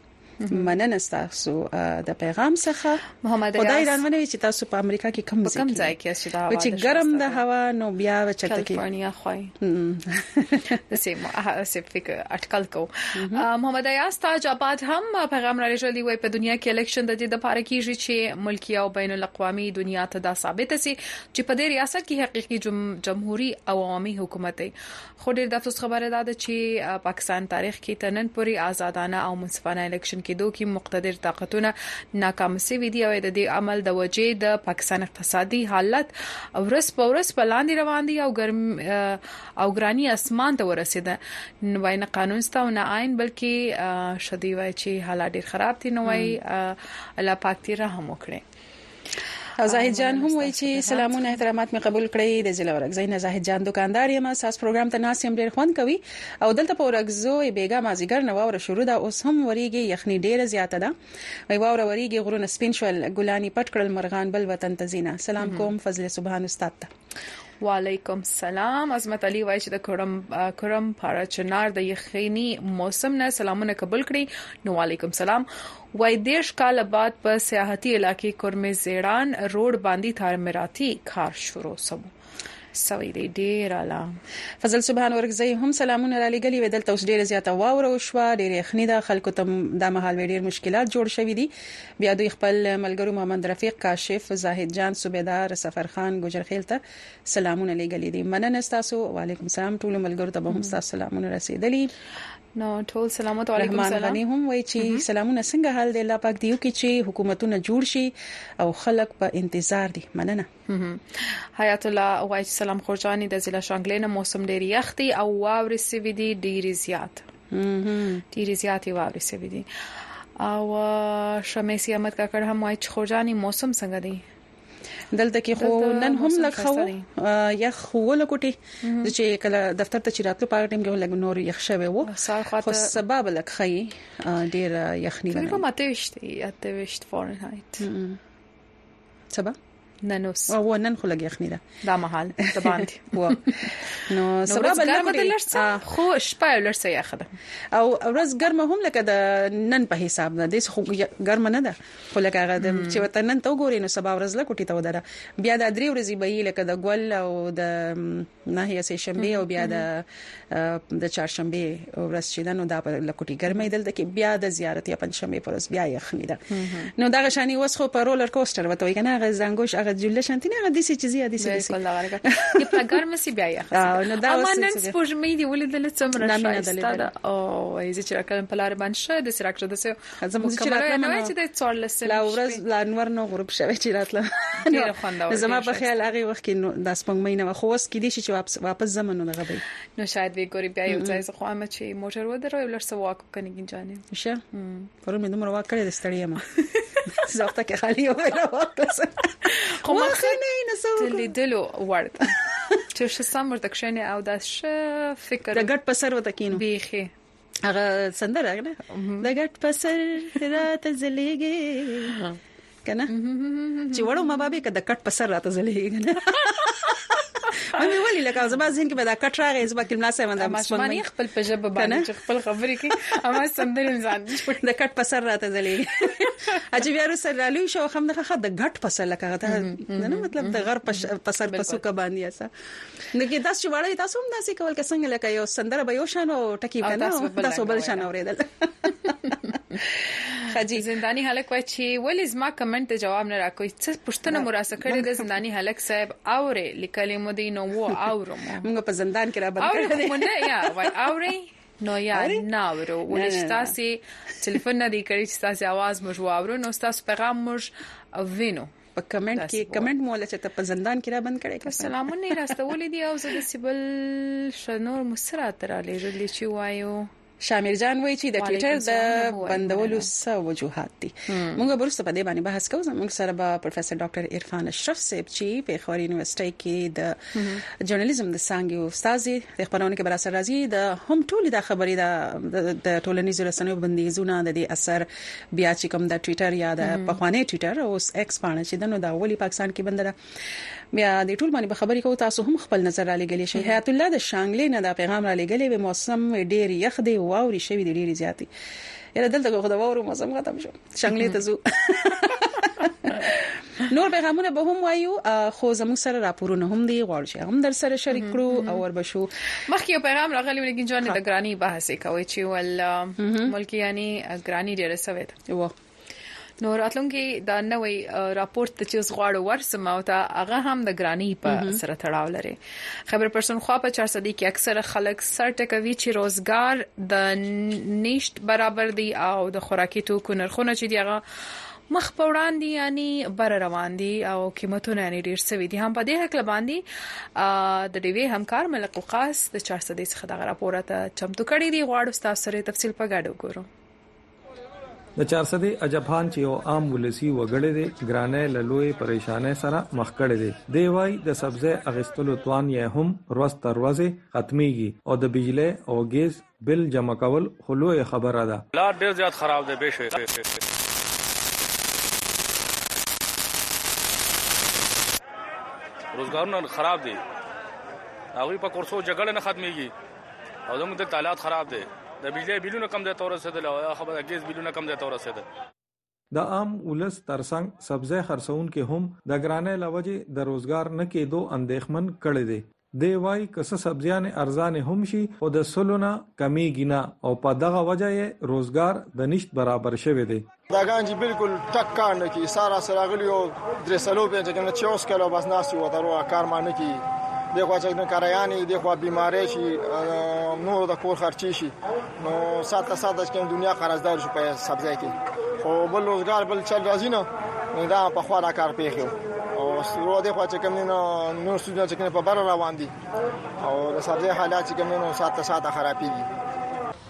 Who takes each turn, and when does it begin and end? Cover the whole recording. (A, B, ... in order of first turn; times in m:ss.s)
0:00.4-0:00.7 A
0:00.5-0:03.0 B
0:03.2-0:04.0 A
0:03.6-0:05.9 B
0:05.4-0:07.4 A
0:06.5-0:08.8 B
0:08.4-0:09.5 A
0:09.6-0:10.7 B
0:10.8-0:48.4 A
0:13.2-0:13.4 B
0:46.0-0:46.3 B
0:49.6-1:00.9 B
0:49.6-0:51.4 A
1:01.5-1:06.9 B
1:05.4-1:05.7 A
1:07.6-1:22.1 A
1:22.7-1:24.2 A
1:24.6-1:41.9 B
1:42.6-1:44.2 A
1:43.6-1:50.5 B
1:50.7-1:57.2 A
1:57.5-1:58.2 B
1:58.3-1:59.6 A
2:00.4-2:04.2 A
2:05.1-2:15.6 B
2:05.6-2:07.0 A
2:08.8-2:09.1 A
2:12.0-2:13.0 A
2:15.3-2:17.8 A
2:17.8-2:18.2 B
2:19.3-2:19.6 B
2:20.0-2:20.5 A
2:20.5-2:21.6 B
2:21.8-2:27.3 A
2:22.6-2:25.8 B
2:27.7-2:46.4 B
2:32.6-2:33.0 A
2:39.2-2:39.8 A
2:46.5-2:46.9 A
2:47.0-2:51.7 B
2:51.4-3:02.6 A
2:52.2-2:52.9 B
2:53.7-2:54.9 B
2:56.2-2:57.1 B
3:00.2-3:01.3 B
3:02.0-3:09.6 B
3:04.7-3:06.1 A
3:10.0-3:14.9 A
3:10.9-3:11.2 B
3:14.1-3:14.4 B
3:15.0-3:16.5 B
3:17.0-3:21.3 B
3:19.8-3:20.4 A
3:21.0-3:22.4 A
3:22.9-3:25.7 A
3:25.5-3:26.6 B
3:26.5-3:27.1 A
3:27.6-3:32.2 B
3:28.9-3:29.3 A
3:32.8-3:33.1 B
3:33.1-3:34.2 A
3:33.9-3:41.0 B
3:40.4-3:44.6 A
3:41.8-3:42.1 B
3:44.6-3:52.5 B
3:49.5-3:51.8 A
3:53.1-3:59.2 B
3:56.8-3:58.1 A
3:59.3-4:08.7 A
4:00.3-4:00.8 B
4:04.3-4:05.3 B
4:08.6-4:10.8 B
4:09.6-4:18.7 A
4:12.1-4:12.4 B
4:13.1-4:13.7 B
4:19.0-4:22.3 B
4:19.3-4:19.9 A
4:21.6-4:27.1 A
4:27.4-4:50.1 B
4:28.4-4:30.1 A
4:31.3-4:31.6 A
4:37.4-4:37.6 A
4:46.8-4:47.2 A
4:50.9-4:58.5 B
4:59.1-5:09.3 B
5:08.1-5:08.8 A
5:09.7-5:15.4 A
5:13.2-5:13.5 B
5:15.5-5:15.7 B
5:16.6-5:22.6 A
5:21.5-5:21.8 B
5:23.1-5:31.2 A
5:31.9-5:36.8 A
5:37.4-5:43.7 A
5:45.2-5:58.6 C
5:58.7-6:00.6 D
6:06.1-6:07.2 D
6:08.3-6:09.9 D
6:10.7-6:15.4 D
6:16.3-6:30.4 C
6:30.7-6:37.0 E
6:37.5-6:52.9 E
6:53.6-6:56.2 E